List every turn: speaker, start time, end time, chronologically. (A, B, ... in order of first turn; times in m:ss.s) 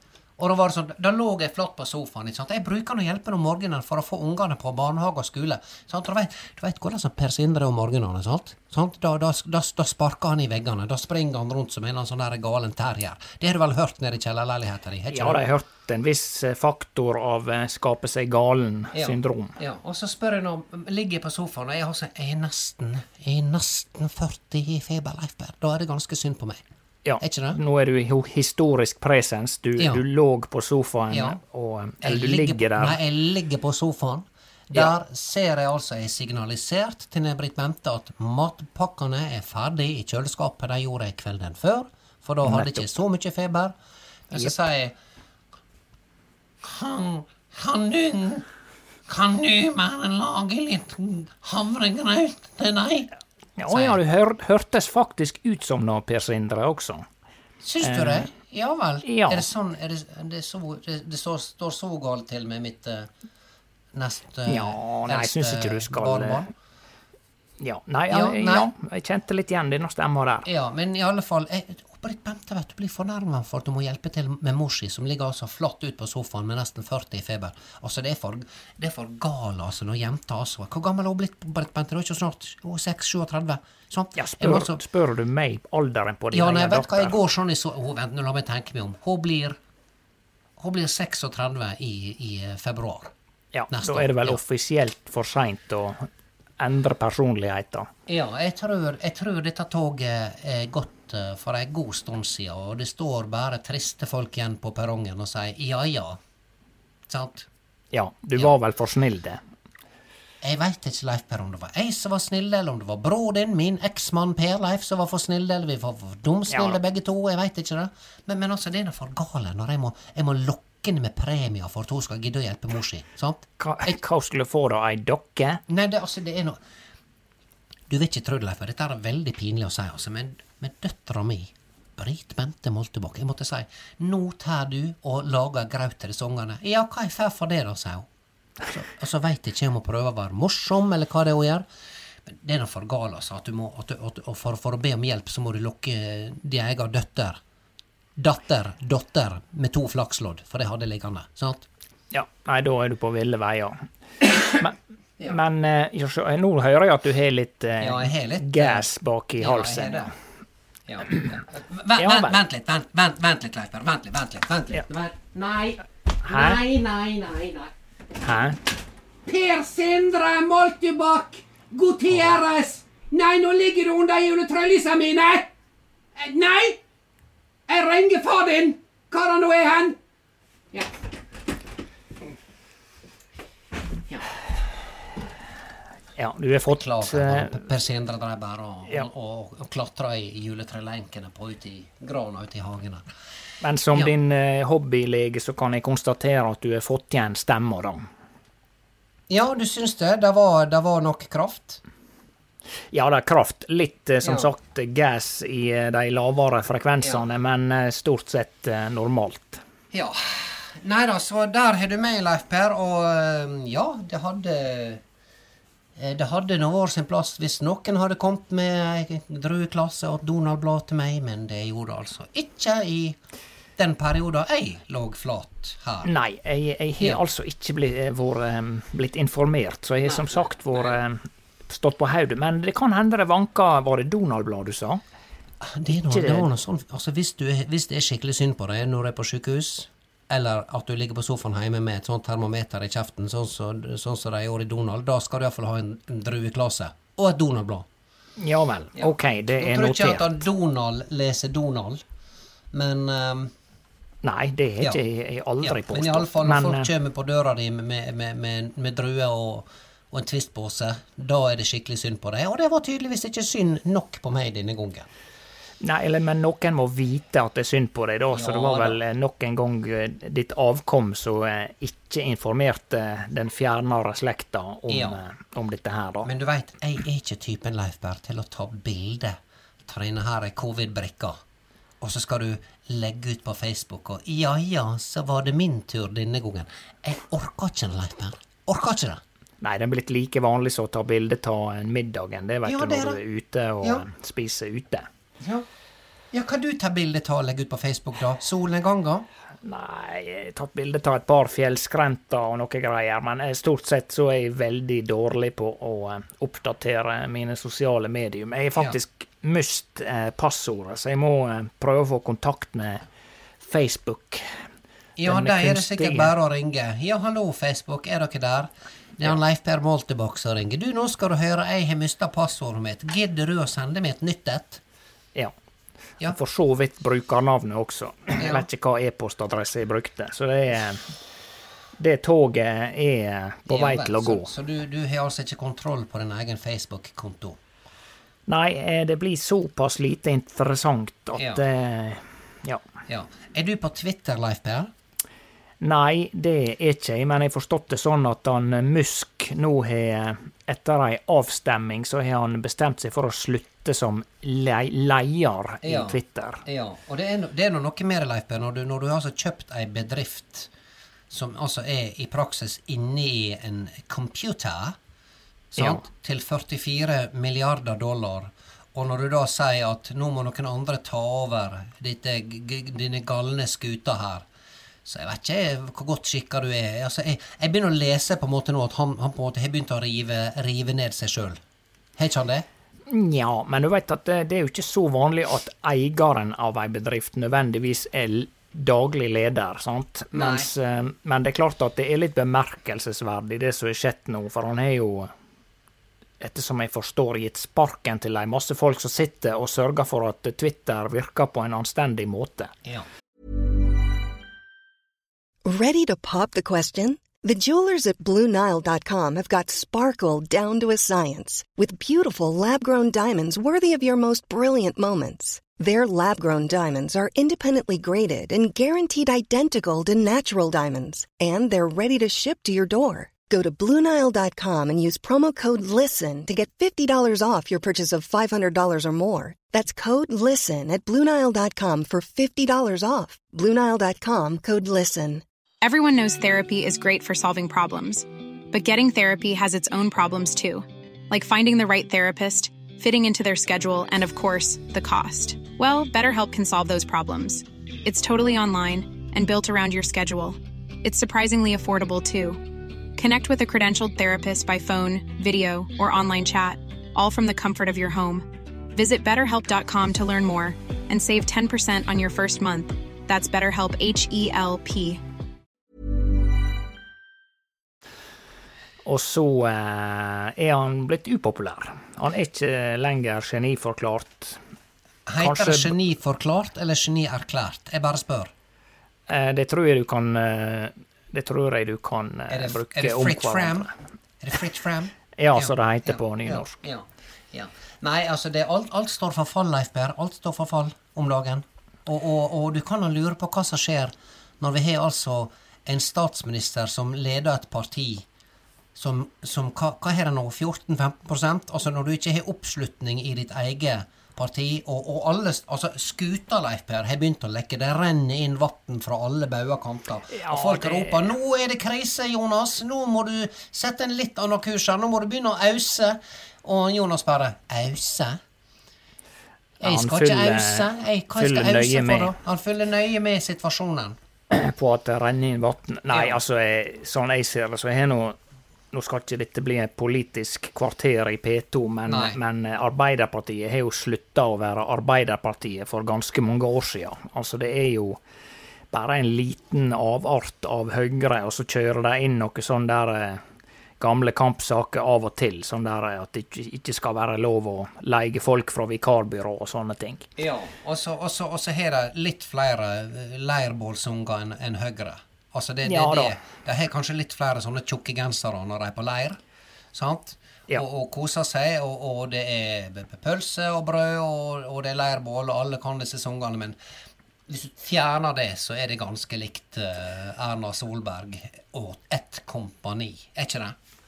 0:00.4-0:15.5 A
0:15.1-0:19.6 B
0:18.9-0:26.6 A
0:27.0-0:33.0 B
0:27.2-0:27.6 A
0:31.1-0:31.4 A
0:32.0-0:43.7 A
0:42.4-0:42.9 B
0:44.3-0:44.9 A
0:46.6-0:48.4 A
0:49.1-0:53.1 A
0:53.6-0:57.0 B
0:53.7-0:54.0 A
0:57.6-1:03.1 A
0:57.8-0:58.3 B
0:59.0-0:59.5 B
1:03.9-1:06.5 A
1:04.5-1:06.4 B
1:07.6-1:10.5 B
1:08.1-1:08.7 A
1:10.4-1:24.8 A
1:24.2-1:27.2 B
1:26.3-1:29.6 A
1:30.6-1:33.1 A
1:33.5-1:36.1 B
1:33.7-1:34.4 A
1:36.6-1:37.9 B
1:38.1-1:46.2 A
1:47.1-1:47.5 A
1:47.9-1:49.4 B
1:50.4-2:04.0 A
1:56.5-1:56.8 B
2:03.6-2:05.6 B
2:05.7-2:06.6 A
2:07.9-2:18.1 A
2:18.6-2:21.6 A
2:22.2-2:27.4 A
2:28.2-2:31.6 A
2:32.1-2:33.9 B
2:34.4-2:40.1 B
2:37.8-2:38.9 A
2:39.4-2:40.1 A
2:40.9-2:47.7 A
2:42.0-2:42.4 B
2:46.2-2:46.6 B
2:48.2-2:48.6 B
2:49.2-2:55.5 A
2:56.1-2:56.8 A
2:57.7-3:00.0 A
3:06.2-3:07.6 B
3:06.7-3:13.0 A
3:13.6-3:18.1 B
3:19.3-3:21.8 A
3:22.9-3:29.6 B
3:24.2-3:24.5 A
3:29.9-3:35.0 A
3:36.0-3:43.2 A
3:43.8-3:46.1 A
3:46.0-3:55.0 B
3:50.0-3:51.0 A
3:55.6-4:07.8 A
3:56.1-3:56.5 B
4:08.4-4:10.4 B
4:09.0-4:12.0 A
4:12.7-4:13.5 A
4:14.2-4:16.9 B
4:15.6-4:25.1 A
4:25.8-4:36.3 B
4:28.3-4:29.0 A
4:34.9-4:35.2 A
4:36.2-4:41.4 A
4:42.0-4:49.2 A
4:49.6-4:55.1 B
4:52.6-4:53.2 A
4:55.4-4:55.6 A
4:56.3-4:59.2 A
4:59.6-5:13.0 B
5:13.6-5:14.5 B
5:15.2-5:24.8 A
5:15.2-5:16.3 B
5:26.2-5:31.1 B
5:28.4-5:28.7 A
5:32.0-5:34.5 B
5:33.7-5:37.6 A
5:38.5-5:42.8 B
5:41.4-5:41.6 A
5:43.1-5:44.9 A
5:45.8-5:56.6 B
5:55.8-6:00.7 A
6:01.3-6:05.0 A
6:05.7-6:14.4 A
6:05.8-6:06.0 B
6:15.0-6:21.6 A
6:22.2-6:22.6 A
6:23.1-6:35.3 B
6:30.3-6:30.7 A
6:36.4-6:42.7 B
6:45.6-7:15.4 C
7:15.8-7:45.2 D
7:49.0-7:54.6 B
7:55.3-7:58.5 A
7:55.4-7:55.9 B
7:59.3-8:03.9 B
8:02.5-8:18.2 A
8:05.4-8:06.8 B
8:18.9-8:38.4 A
8:30.3-8:31.3 B
8:39.8-8:44.2 A
8:39.8-8:42.3 B
8:44.5-8:48.4 B
8:46.1-8:46.4 A
8:48.9-8:58.2 B
8:52.0-8:52.4 A
8:58.9-9:03.4 B
9:04.0-9:10.3 B
9:10.4-9:19.4 A
9:15.8-9:16.4 B
9:19.9-9:26.8 A
9:27.5-9:33.8 A